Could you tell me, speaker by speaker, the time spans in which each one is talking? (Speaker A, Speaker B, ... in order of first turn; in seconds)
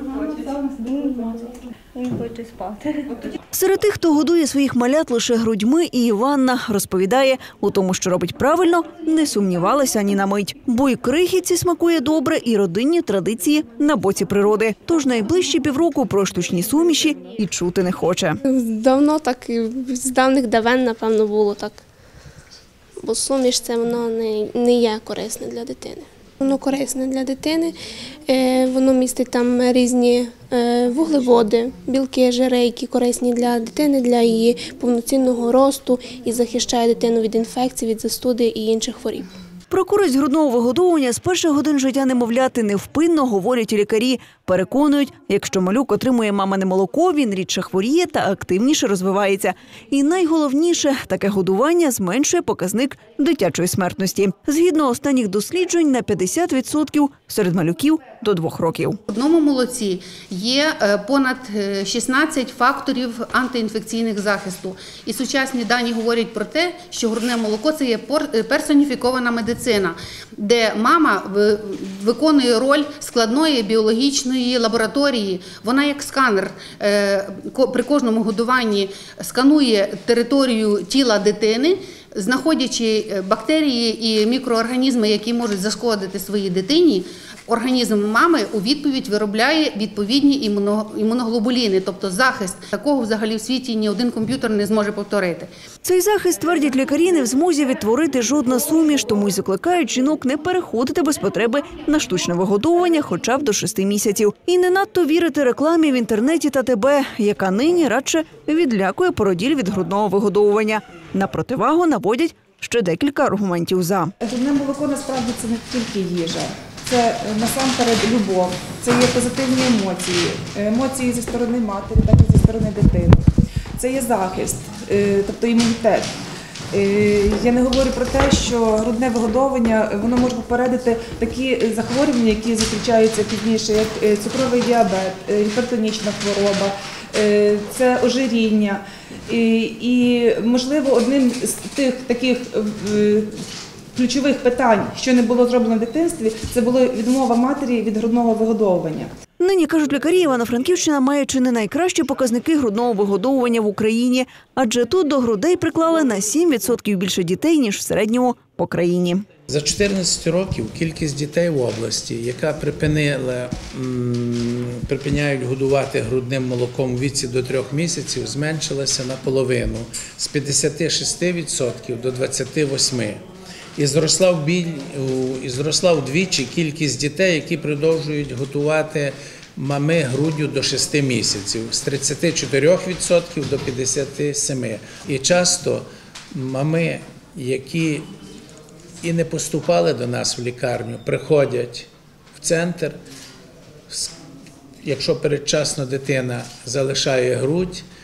Speaker A: 0.2-3.1
Speaker B: 3.5-18.4, 39.7-59.0, 95.8-114.1, 149.4-159.2
Speaker C: 18.5-21.8, 23.0-27.8, 28.3-39.3
Speaker D: 59.1-95.5
Speaker E: 114.2-123.2, 123.8-126.2, 126.7-143.4, 143.9-149.1
Speaker F: 159.5-173.2, 173.8-188.1, 189.0-193.0, 194.8-197.8